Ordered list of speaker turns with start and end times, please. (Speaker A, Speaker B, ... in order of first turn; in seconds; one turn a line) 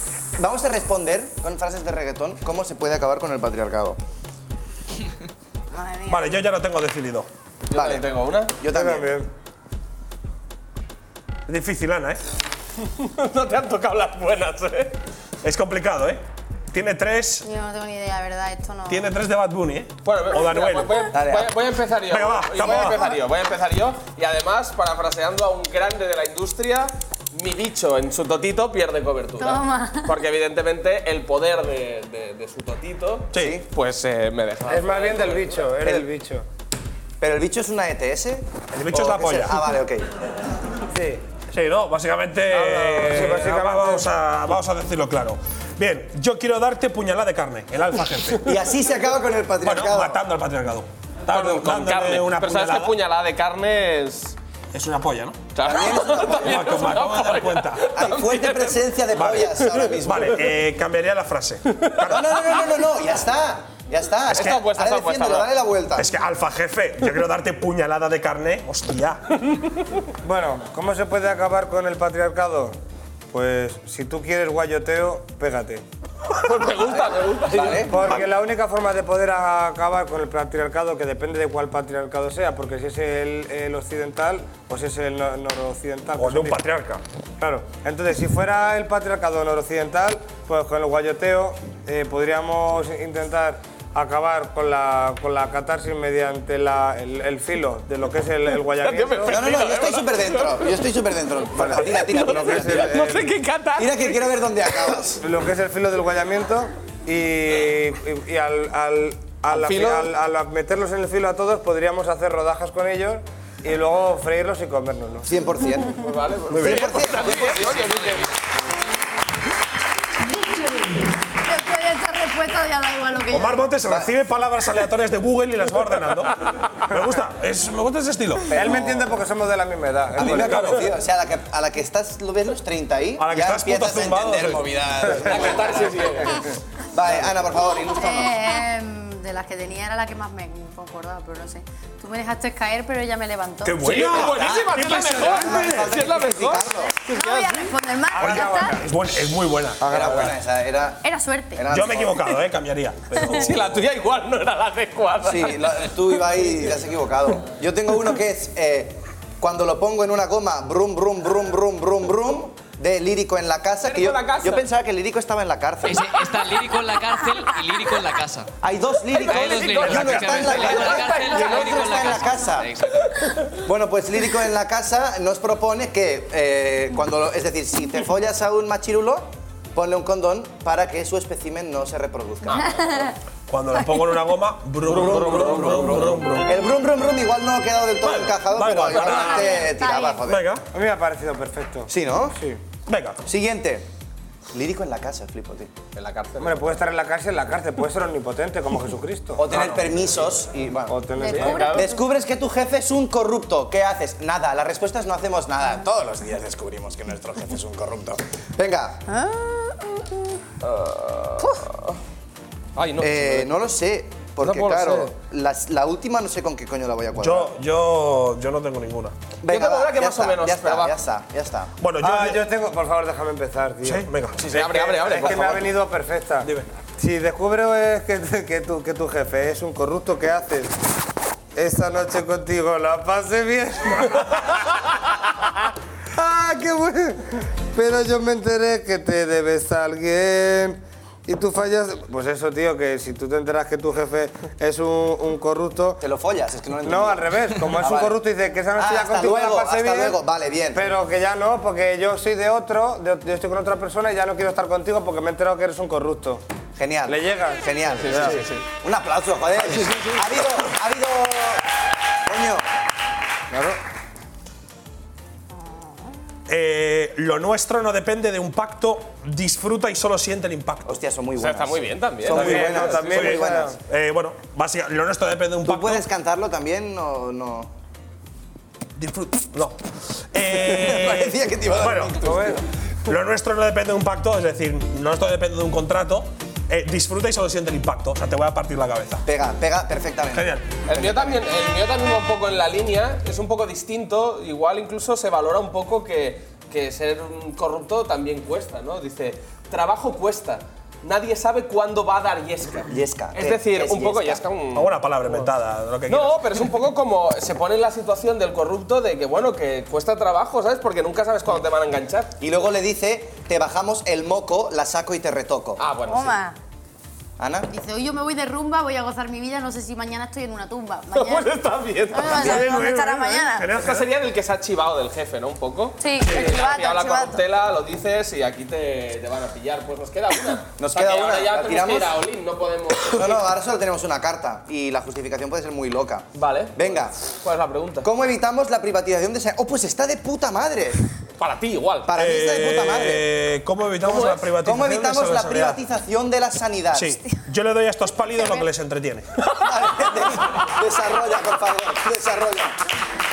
Speaker A: 0.4-4.0
Speaker B: 5.7-6.4
Speaker C: 6.1-7.3
Speaker D: 7.7-8.5
Speaker A: 7.7-8.1
Speaker A: 8.6-9.1
Speaker E: 8.6-9.3
Speaker C: 11.5-12.2
Speaker D: 13.0-14.9
Speaker C: 15.4-17.5
Speaker B: 17.4-19.1
Speaker C: 18.9-21.1
Speaker D: 20.1-35.7
Speaker A: 21.1-21.6
Speaker C: 22.1-23.0
Speaker B: 22.8-23.1
Speaker B: 29.4-30.1
Speaker C: 33.3-33.6
Speaker A: 33.4-33.6
Speaker E: 34.7-36.5
Speaker A: 35.8-36.1
Speaker A: 37.2-40.1
Speaker C: 38.7-39.7
Speaker E: 40.9-41.2
Speaker C: 41.5-48.6
Speaker E: 42.5-44.1
Speaker A: 48.4-50.2
Speaker C: 49.6-53.0
Speaker D: 51.3-54.4
Speaker C: 54.7-55.5
Speaker D: 55.5-58.8
Speaker A: 55.6-56.6
Speaker C: 56.3-57.9
Speaker A: 57.9-60.4
Speaker C: 59.1-62.6
Speaker A: 62.0-66.1
Speaker D: 64.3-65.5
Speaker C: 64.3-64.7
Speaker C: 66.0-69.2
Speaker E: 70.2-72.8
Speaker E: 73.3-75.8
Speaker D: 76.4-78.0
Speaker A: 76.9-77.9
Speaker E: 77.8-86.6
Speaker C: 86.2-87.0
Speaker E: 87.4-99.5
Speaker D: 98.8-101.0
Speaker A: 99.3-103.1
Speaker E: 101.6-103.3
Speaker D: 101.6-105.0
Speaker A: 103.8-105.2
Speaker E: 105.2-115.3
Speaker D: 109.5-110.1
Speaker A: 115.3-116.0
Speaker D: 116.0-118.3
Speaker C: 116.5-117.2
Speaker A: 116.6-117.7
Speaker B: 121.4-123.7
Speaker C: 123.3-128.7
Speaker E: 128.5-130.8
Speaker A: 130.2-136.4
Speaker C: 130.2-130.9
Speaker C: 133.2-134.7
Speaker D: 135.2-136.5
Speaker A: 136.9-138.4
Speaker B: 137.9-144.0
Speaker C: 143.6-145.9
Speaker D: 143.8-147.7
Speaker A: 144.2-146.9
Speaker B: 147.1-148.8
Speaker C: 148.2-150.3
Speaker E: 148.2-148.5
Speaker E: 149.8-150.3
Speaker A: 149.8-151.0
Speaker B: 151.0-151.7
Speaker A: 151.6-152.3
Speaker C: 151.7-153.8
Speaker D: 153.2-156.6
Speaker A: 155.2-166.1
Speaker D: 163.8-164.7
Speaker F: 165.8-168.5
Speaker A: 168.6-172.7
Speaker D: 169.2-172.2
Speaker F: 169.2-173.2
Speaker C: 169.9-170.5
Speaker A: 173.6-182.8
Speaker D: 182.4-182.8
Speaker B: 182.6-183.1
Speaker C: 183.5-186.5
Speaker A: 184.9-190.4
Speaker D: 184.9-186.2
Speaker C: 188.0-189.7
Speaker B: 189.1-190.3
Speaker C: 190.2-190.6
Speaker E: 190.7-192.6
Speaker A: 191.9-192.4
Speaker C: 192.9-193.2
Speaker A: 193.2-193.9
Speaker A: 194.5-195.7
Speaker D: 195.9-196.7
Speaker E: 196.4-199.5
Speaker A: 199.4-201.0
Speaker C: 199.5-199.8
Speaker E: 200.9-201.8
Speaker B: 201.2-202.1
Speaker D: 201.2-201.9
Speaker A: 201.7-209.0
Speaker B: 209.1-210.1
Speaker D: 210.6-211.9
Speaker D: 212.8-213.5
Speaker A: 213.0-217.5
Speaker D: 214.4-215.1
Speaker C: 217.2-219.2
Speaker A: 219.4-221.7
Speaker D: 219.5-220.9
Speaker C: 221.8-222.4
Speaker E: 222.0-224.1
Speaker C: 223.8-225.4
Speaker A: 224.4-225.1
Speaker D: 224.5-225.7
Speaker E: 225.0-230.8
Speaker E: 231.6-234.6
Speaker E: 236.1-246.0
Speaker A: 246.0-248.2
Speaker E: 246.8-250.2
Speaker A: 248.8-250.9
Speaker E: 250.7-256.4
Speaker A: 256.8-261.6
Speaker E: 257.1-258.4
Speaker D: 258.0-258.6
Speaker A: 262.3-262.6
Speaker E: 263.5-263.8
Speaker C: 266.5-271.0
Speaker A: 270.9-273.7
Speaker D: 271.4-273.3
Speaker E: 272.3-273.8
Speaker C: 272.3-276.1
Speaker A: 275.6-277.7
Speaker C: 279.0-279.8
Speaker C: 280.3-282.3
Speaker A: 280.6-282.6
Speaker E: 282.2-282.6
Speaker C: 283.1-289.2
Speaker A: 289.3-291.4
Speaker C: 290.3-290.9
Speaker D: 290.9-305.5
Speaker A: 302.9-304.4
Speaker C: 304.7-306.6
Speaker D: 306.1-312.3
Speaker A: 312.4-315.8
Speaker D: 315.8-316.4
Speaker B: 316.1-316.6
Speaker A: 317.4-317.7
Speaker B: 317.7-321.5
Speaker D: 321.1-322.8
Speaker B: 322.1-323.7
Speaker C: 322.3-324.1
Speaker D: 323.8-333.5
Speaker B: 326.0-327.4
Speaker A: 330.8-332.2
Speaker A: 333.1-337.1
Speaker D: 336.4-338.1
Speaker A: 338.0-341.0
Speaker D: 341.4-342.1
Speaker A: 342.1-343.3
Speaker C: 342.1-345.8
Speaker D: 344.1-344.5
Speaker A: 344.1-347.2
Speaker C: 346.9-350.1
Speaker A: 349.6-352.8